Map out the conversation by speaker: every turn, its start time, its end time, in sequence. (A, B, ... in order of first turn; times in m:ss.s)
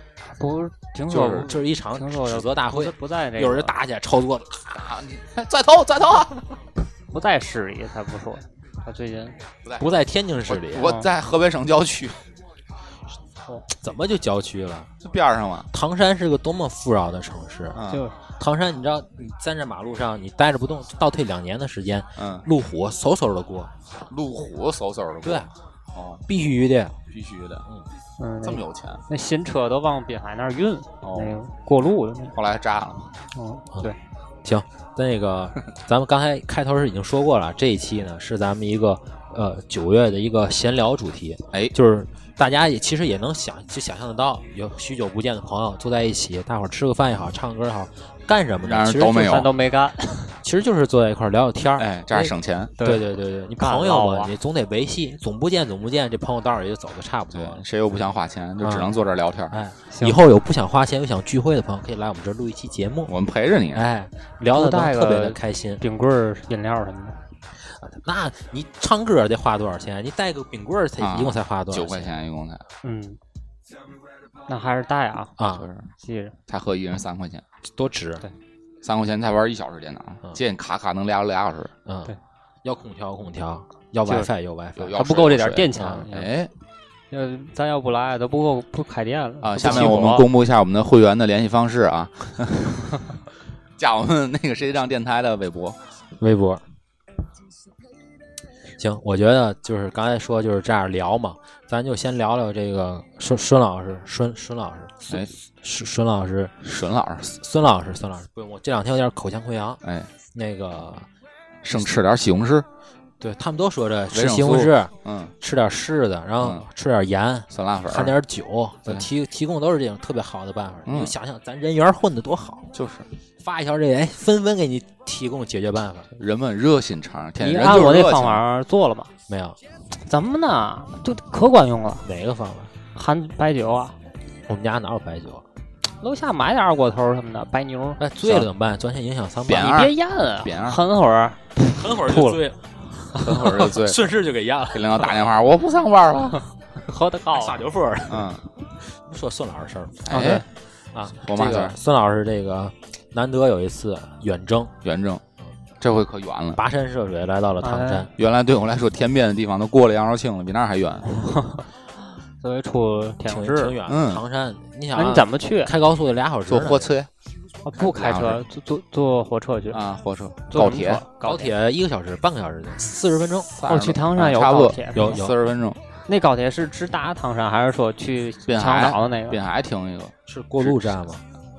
0:00.4-0:03.8 A
0:01.1-0:01.4 B
0:01.2-0:04.8 C
0:04.7-0:06.5 B
0:07.1-0:09.4 A
0:09.6-0:12.2 B
0:09.8-0:10.9 C
0:13.7-0:14.9 C
0:15.0-0:15.7 B
0:15.7-0:17.8 C
0:17.7-0:18.0 B
0:17.9-0:18.2 A
0:18.4-0:23.7 C
0:22.2-0:22.4 B
0:24.1-0:26.2 B
0:25.2-0:25.5 C
0:26.3-0:27.0 C
0:27.1-0:27.6 B
0:28.2-0:32.3 A
0:28.4-0:29.0 B
0:31.0-0:31.4 B
0:32.3-0:33.1 B
0:33.3-0:34.0 A
0:34.4-0:49.4 C
0:48.6-0:49.5 B
0:49.2-0:50.3 A
0:50.4-0:57.6 C
0:51.8-0:52.7 B
0:52.8-0:53.0 A
0:53.6-0:54.3 A
0:57.3-0:59.6 B
0:58.6-0:59.0 C
0:59.5-1:03.1 C
0:59.9-1:00.2 A
1:03.0-1:03.9 B
1:03.7-1:05.8 C
1:04.5-1:07.2 A
1:07.7-1:12.1 C
1:11.0-1:12.6 B
1:12.8-1:13.2 A
1:14.5-1:15.4 A
1:15.4-1:15.6 C
1:15.5-1:15.8 B
1:16.0-1:16.4 A
1:16.5-1:17.4 B
1:17.7-1:18.2 C
1:18.8-1:21.7 B
1:21.8-1:25.0 C
1:24.8-1:26.5 B
1:24.9-1:26.3 A
1:25.7-1:26.0 C
1:27.1-1:30.2 A
1:29.4-1:33.0 B
1:29.6-1:29.9 C
1:33.8-1:35.8 B
1:36.2-1:36.6 C
1:38.8-1:46.5 C
1:46.6-1:47.3 B
1:47.2-1:49.8 C
1:49.8-1:50.1 B
1:50.3-1:51.1 C
1:51.6-1:52.7 B
1:53.2-2:02.7 C
1:54.1-1:55.3 B
1:56.4-1:56.6 B
1:57.5-1:58.2 B
2:00.8-2:01.1 B
2:02.7-2:03.1 B
2:03.4-2:06.1 C
2:06.2-2:08.4 B
2:07.4-2:09.1 A
2:09.3-2:09.6 C
2:10.0-2:12.1 A
2:12.0-2:12.7 C
2:12.9-2:14.0 A
2:14.5-2:15.4 C
2:16.0-2:18.0 A
2:18.0-2:19.8 C
2:18.2-2:18.5 B
2:19.5-2:20.8 B
2:19.5-2:22.4 A
2:21.7-2:25.1 C
2:23.2-2:24.1 B
2:24.7-2:26.4 B
2:26.8-2:27.6 A
2:27.3-2:30.4 C
2:28.1-2:28.4 B
2:30.0-2:30.4 B
2:30.1-2:30.4 A
2:30.9-2:34.7 C
2:31.2-2:31.8 B
2:34.8-2:35.2 B
2:35.8-2:36.6 B
2:36.6-2:38.1 C
2:37.6-2:38.1 A
2:38.2-2:41.1 B
2:41.1-2:41.6 A
2:42.4-2:43.7 A
2:43.2-2:46.9 C
2:43.8-2:44.2 B
2:44.9-2:45.7 A
2:46.5-2:47.1 B
2:47.6-2:49.8 A
2:47.8-2:48.4 B
2:49.7-2:51.0 B
2:50.5-2:51.5 A
2:51.2-2:53.5 C
2:53.6-2:55.8 B
2:53.6-2:55.2 A
2:54.9-2:55.4 C
2:56.1-2:59.4 A
2:58.4-3:00.9 B
3:00.3-3:01.2 C